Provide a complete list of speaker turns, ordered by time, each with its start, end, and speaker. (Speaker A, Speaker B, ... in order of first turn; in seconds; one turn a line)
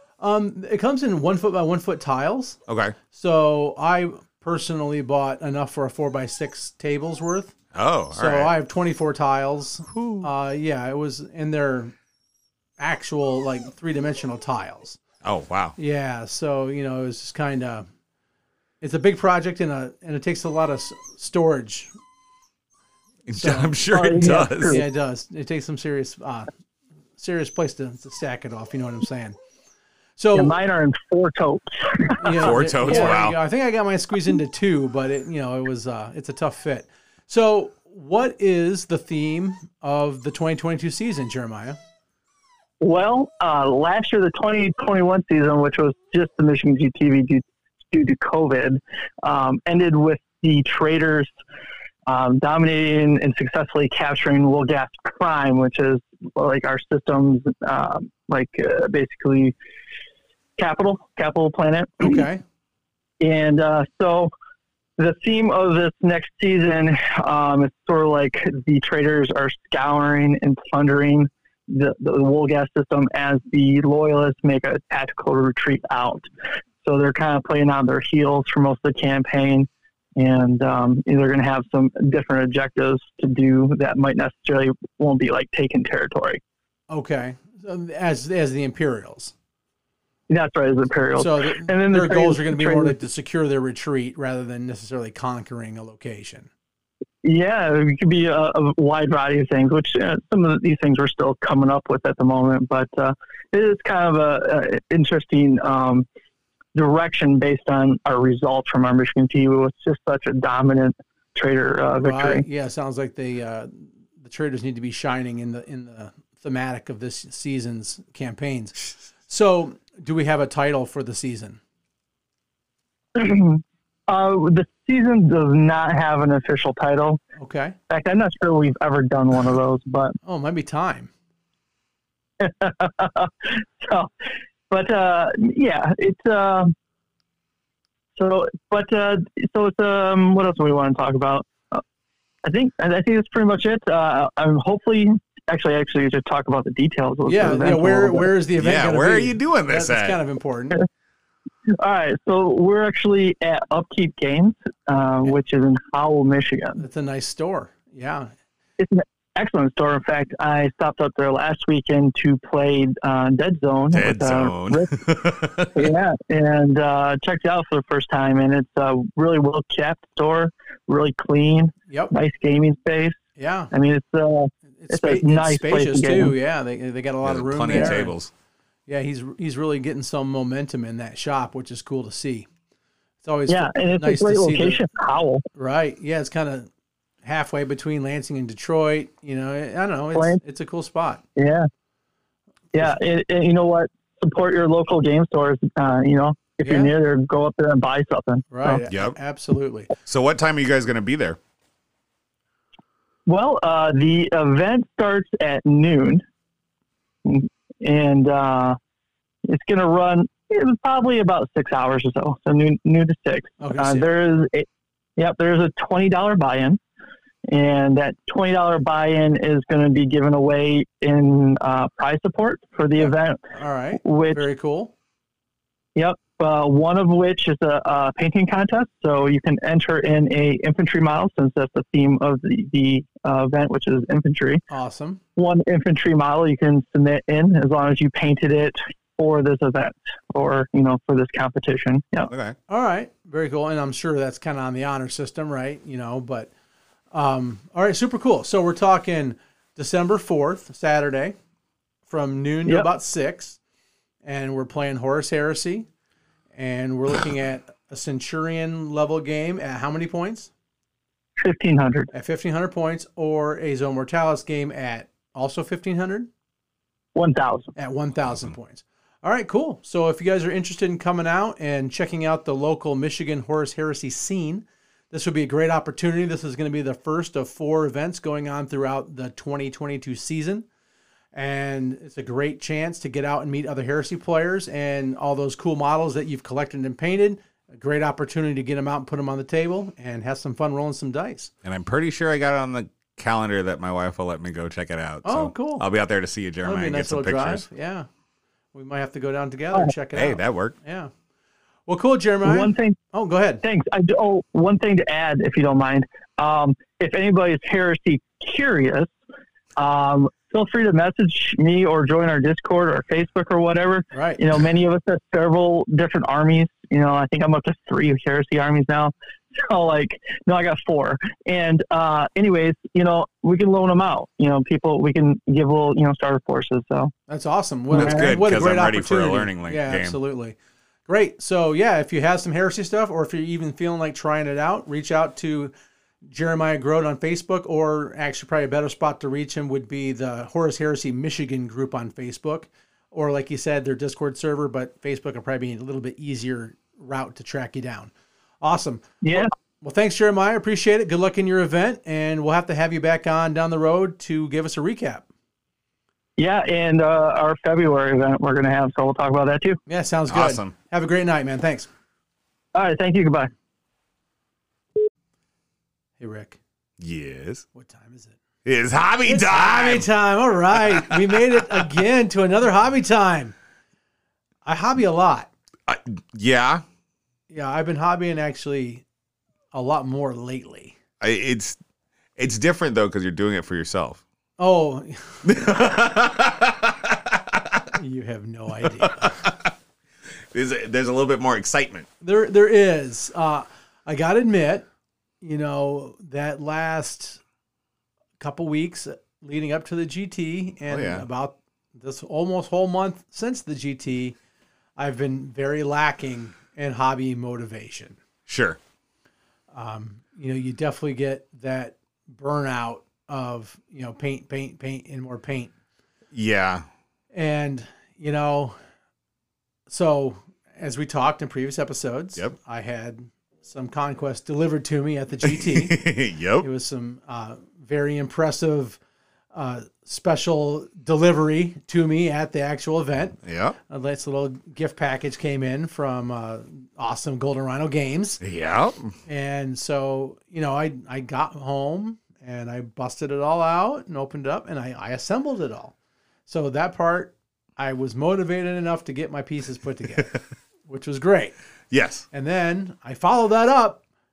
Speaker A: 0.2-2.6
Speaker B: 2.7-3.0
Speaker A: 3.1-7.5
Speaker B: 7.7-8.5
Speaker A: 8.1-11.9
Speaker B: 9.9-10.3
Speaker A: 12.8-15.0
Speaker B: 15.2-15.8
Speaker A: 15.8-17.9
Speaker A: 18.8-21.9
Speaker B: 23.3-24.8
Speaker A: 23.3-26.5
Speaker C: 23.9-24.8
Speaker A: 27.2-29.4
Speaker A: 30.2-30.6
Speaker C: 30.3-33.1
Speaker A: 32.2-41.8
Speaker B: 32.4-33.4
Speaker C: 42.8-51.3
Speaker C: 52.1-59.5
Speaker C: 60.6-62.3
Speaker A: 62.0-62.4
Speaker C: 63.2-64.3
Speaker C: 65.0-76.3
Speaker C: 76.8-86.4
Speaker A: 86.9-89.3
Speaker C: 90.3-93.0
Speaker A: 91.2-96.5
Speaker C: 97.2-106.1
Speaker C: 106.8-112.5
Speaker A: 112.0-121.6
Speaker C: 123.2-127.2
Speaker A: 127.4-127.8
Speaker C: 127.9-130.2
Speaker A: 130.2-131.1
Speaker C: 132.4-134.1
Speaker C: 134.7-136.7
Speaker C: 138.2-141.8
Speaker C: 142.4-148.3
Speaker A: 147.3-150.8
Speaker B: 148.6-150.2
Speaker C: 151.8-156.8
Speaker A: 156.8-158.3
Speaker C: 158.8-173.2
Speaker B: 163.9-165.9
Speaker A: 173.4-173.7
Speaker C: 173.7-176.3
Speaker A: 174.8-178.2
Speaker B: 177.2-178.3
Speaker A: 178.9-182.5
Speaker A: 183.2-184.8
Speaker C: 183.5-185.4
Speaker A: 185.5-186.7
Speaker A: 187.2-191.2
Speaker C: 190.1-190.4
Speaker C: 191.4-191.7
Speaker C: 192.7-198.8
Speaker A: 196.6-196.9
Speaker A: 198.5-199.9
Speaker B: 198.9-199.2
Speaker B: 200.1-201.4
Speaker C: 203.3-206.2
Speaker C: 207.2-208.8
Speaker C: 209.4-216.8
Speaker A: 213.6-214.1
Speaker C: 217.5-223.4
Speaker A: 223.0-224.9
Speaker C: 224.0-224.4
Speaker C: 226.0-234.6
Speaker A: 234.7-235.2
Speaker C: 235.4-242.3
Speaker B: 242.3-242.6
Speaker A: 242.7-246.5
Speaker A: 247.1-251.4
Speaker A: 252.1-253.6
Speaker A: 254.2-255.9
Speaker A: 256.6-260.5
Speaker C: 261.4-262.1
Speaker A: 262.1-266.3
Speaker C: 267.1-267.7
Speaker A: 267.8-280.7
Speaker A: 281.3-291.5
Speaker B: 291.6-297.7
Speaker A: 295.2-295.9
Speaker A: 296.6-298.1
Speaker A: 298.7-301.1
Speaker B: 300.1-300.8
Speaker A: 301.9-303.6
Speaker C: 302.4-303.0
Speaker C: 303.6-309.1
Speaker C: 309.8-327.1
Speaker A: 314.1-314.4
Speaker A: 327.3-330.6
Speaker B: 327.9-330.2
Speaker C: 327.9-328.3
Speaker A: 331.1-335.7
Speaker A: 336.2-355.3
Speaker C: 349.2-349.5
Speaker C: 356.4-359.8
Speaker A: 359.9-361.9
Speaker B: 360.3-360.7
Speaker C: 362.7-363.5
Speaker A: 366.2-366.6
Speaker B: 367.0-367.6
Speaker A: 367.7-368.4
Speaker B: 368.6-370.1
Speaker A: 369.2-373.6
Speaker B: 370.8-371.8
Speaker A: 374.6-375.5
Speaker B: 375.9-376.8
Speaker A: 377.5-379.0
Speaker A: 379.7-381.0
Speaker B: 381.2-381.8
Speaker B: 382.4-384.2
Speaker A: 384.6-385.5
Speaker B: 385.4-387.9
Speaker A: 387.9-389.4
Speaker B: 389.0-389.7
Speaker B: 390.5-392.1
Speaker A: 392.2-394.9
Speaker A: 395.4-397.4
Speaker A: 398.4-404.4
Speaker B: 400.9-401.3
Speaker A: 405.0-408.2
Speaker B: 408.5-408.8
Speaker A: 409.7-415.7
Speaker B: 416.3-416.9
Speaker A: 417.3-418.8
Speaker A: 419.9-426.1
Speaker B: 425.4-426.7
Speaker A: 426.6-429.0
Speaker A: 429.5-433.4
Speaker B: 433.4-433.8
Speaker A: 433.9-438.4
Speaker B: 438.4-439.1
Speaker A: 439.3-445.9
Speaker A: 446.5-451.6
Speaker B: 451.9-452.3
Speaker A: 452.3-454.0